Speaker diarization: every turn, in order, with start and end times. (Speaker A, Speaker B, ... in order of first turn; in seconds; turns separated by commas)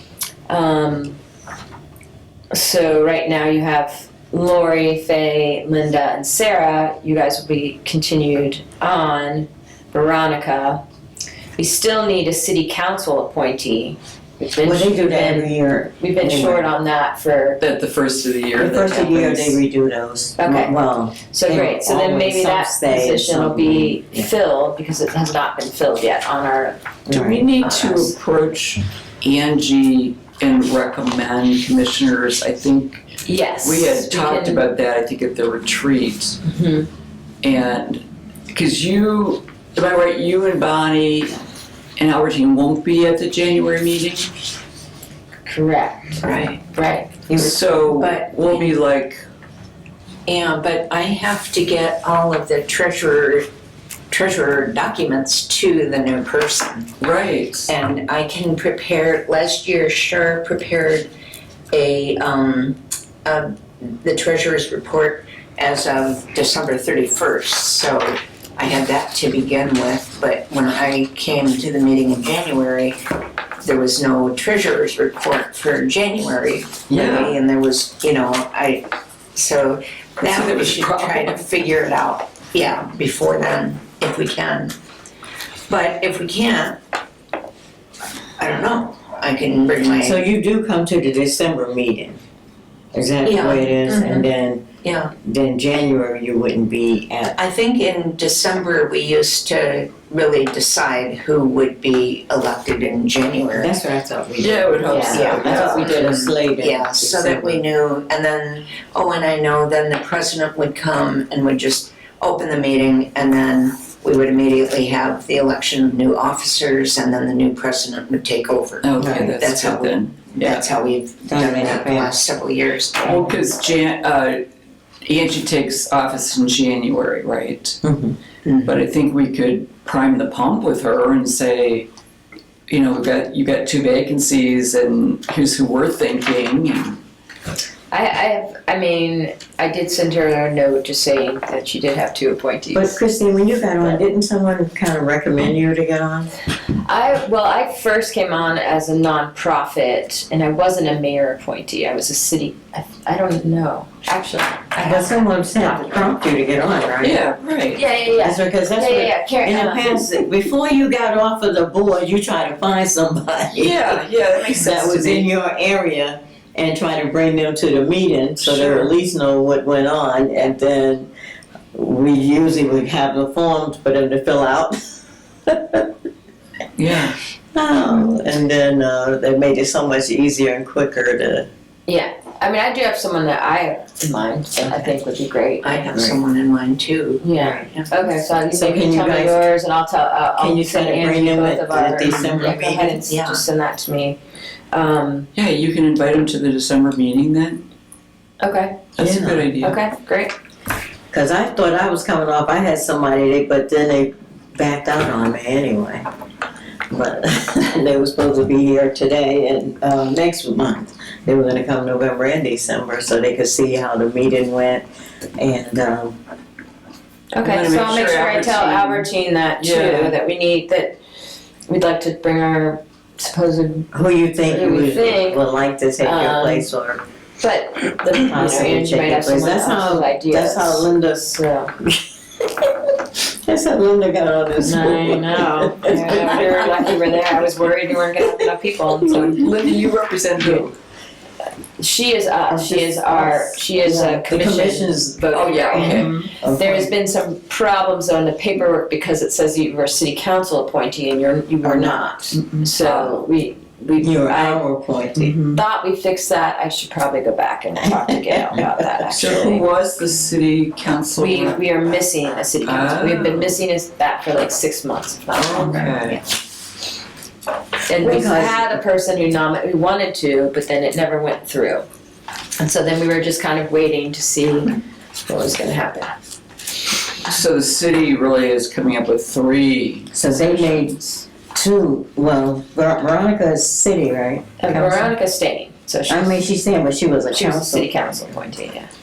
Speaker A: 0.5-1.2, Speaker A: 2.5-10.8, Speaker A: 11.6-17.6, Speaker B: 14.6-16.7, Speaker C: 17.6-19.6, Speaker B: 18.6-24.3, Speaker A: 20.4-20.8, Speaker A: 21.3-26.9, Speaker B: 27.1-27.5, Speaker C: 27.1-33.0, Speaker D: 27.6-28.1, Speaker A: 33.2-34.7, Speaker C: 33.6-36.4, Speaker A: 36.5-36.9, Speaker C: 37.4-41.4, Speaker C: 42.0-44.3, Speaker A: 45.5-47.2, Speaker D: 46.2-46.6, Speaker B: 47.3-47.6, Speaker C: 47.3-49.2, Speaker D: 47.9-48.8, Speaker D: 50.3-53.5, Speaker D: 54.1-56.9, Speaker C: 57.0-57.7, Speaker D: 57.7-61.1, Speaker D: 61.7-73.0, Speaker D: 73.6-84.8, Speaker C: 76.9-77.4, Speaker C: 80.2-81.4, Speaker D: 85.7-86.8, Speaker D: 88.4-90.2, Speaker B: 90.0-92.2, Speaker B: 92.9-94.7, Speaker D: 93.2-94.3, Speaker D: 94.8-95.1, Speaker B: 95.2-97.4, Speaker D: 97.4-103.7, Speaker B: 103.5-107.7, Speaker C: 104.4-106.2, Speaker A: 104.9-105.2, Speaker D: 105.1-123.3, Speaker C: 118.8-120.7, Speaker B: 119.0-119.4, Speaker B: 121.3-122.2, Speaker C: 123.0-124.4, Speaker C: 125.0-127.8, Speaker B: 127.8-128.2, Speaker D: 128.4-128.8, Speaker C: 128.7-131.9, Speaker C: 132.7-137.0, Speaker A: 137.9-143.0, Speaker B: 142.7-146.3, Speaker A: 146.9-156.2, Speaker B: 154.8-157.2, Speaker C: 157.0-157.8, Speaker A: 157.8-160.0, Speaker B: 158.2-171.1, Speaker C: 163.5-165.3, Speaker C: 168.5-168.9, Speaker B: 171.7-174.8, Speaker B: 175.5-175.9, Speaker C: 176.8-177.2, Speaker B: 177.5-181.5, Speaker A: 181.9-185.8, Speaker D: 185.6-187.9, Speaker B: 185.9-186.2, Speaker A: 187.2-194.2, Speaker B: 187.4-189.4, Speaker B: 190.4-193.0, Speaker D: 193.0-193.4, Speaker A: 194.7-195.3, Speaker C: 195.3-197.6, Speaker A: 198.4-198.9, Speaker C: 199.0-199.8, Speaker B: 199.0-199.5, Speaker A: 199.6-200.3, Speaker B: 201.1-206.1, Speaker B: 206.9-214.8, Speaker B: 215.4-216.2, Speaker A: 217.3-221.0, Speaker C: 217.4-220.2, Speaker A: 221.7-223.9, Speaker B: 223.9-227.0, Speaker A: 224.5-225.4, Speaker A: 226.0-226.7, Speaker A: 227.4-231.7, Speaker B: 228.1-237.0, Speaker A: 234.6-239.4, Speaker C: 239.1-240.8, Speaker A: 241.8-254.7, Speaker B: 242.5-246.9, Speaker C: 245.3-246.3, Speaker B: 251.6-252.4, Speaker C: 252.3-253.2, Speaker B: 254.0-255.4, Speaker A: 255.2-259.7, Speaker C: 255.3-255.6, Speaker B: 257.8-259.4, Speaker C: 259.1-261.6, Speaker A: 261.2-266.2, Speaker C: 262.6-263.5, Speaker C: 265.4-266.2, Speaker A: 267.9-271.9, Speaker B: 267.9-268.8, Speaker A: 272.6-276.1, Speaker C: 277.2-280.6, Speaker B: 280.1-285.1, Speaker A: 284.6-286.4, Speaker B: 286.1-287.9, Speaker A: 287.3-288.9